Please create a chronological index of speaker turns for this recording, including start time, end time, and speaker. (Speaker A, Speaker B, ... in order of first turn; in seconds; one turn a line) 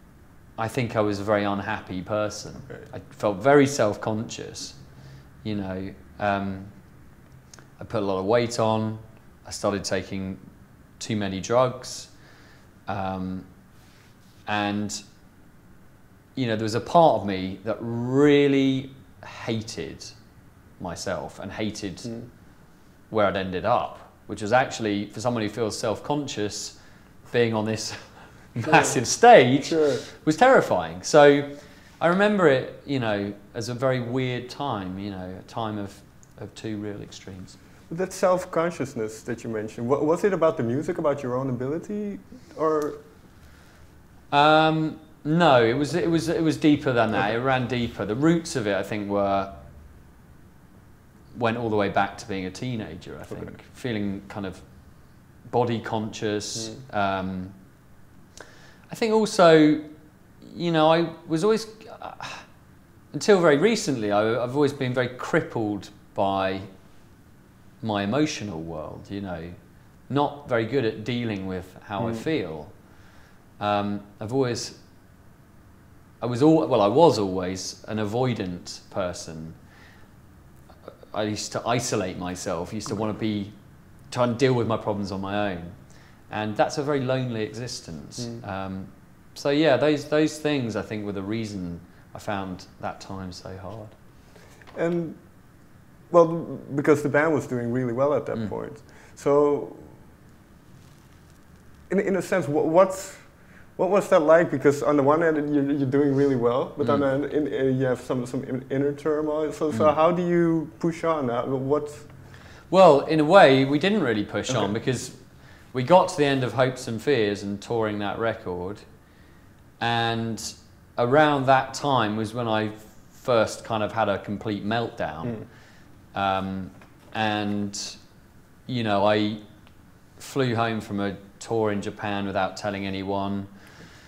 Speaker A: 0.6-4.8
Speaker A: 5.4-6.7
Speaker A: 7.8-10.4
Speaker A: 11.0-12.1
Speaker A: 12.9-13.5
Speaker A: 14.5-15.0
Speaker A: 16.4-20.1
Speaker A: 20.8-22.2
Speaker A: 23.1-26.8
Speaker A: 27.3-37.6
Speaker B: 28.6-28.9
Speaker B: 29.6-30.0
Speaker B: 37.9-43.0
Speaker A: 44.3-49.5
Speaker A: 51.3-54.6
Speaker A: 55.5-57.5
Speaker A: 58.9-59.8
Speaker A: 60.4-62.5
Speaker A: 63.1-66.7
Speaker A: 67.8-69.5
Speaker A: 70.1-72.8
Speaker B: 72.0-72.2
Speaker A: 73.6-74.8
Speaker A: 76.2-79.6
Speaker A: 81.1-83.5
Speaker A: 84.1-85.8
Speaker A: 86.3-93.9
Speaker B: 94.7-99.9
Speaker B: 101.9-112.1
Speaker A: 106.8-107.0
Speaker A: 112.7-115.2
Speaker A: 115.7-118.8
Speaker A: 119.8-125.5
Speaker A: 126.1-128.0
Speaker A: 128.7-129.4
Speaker A: 130.2-133.5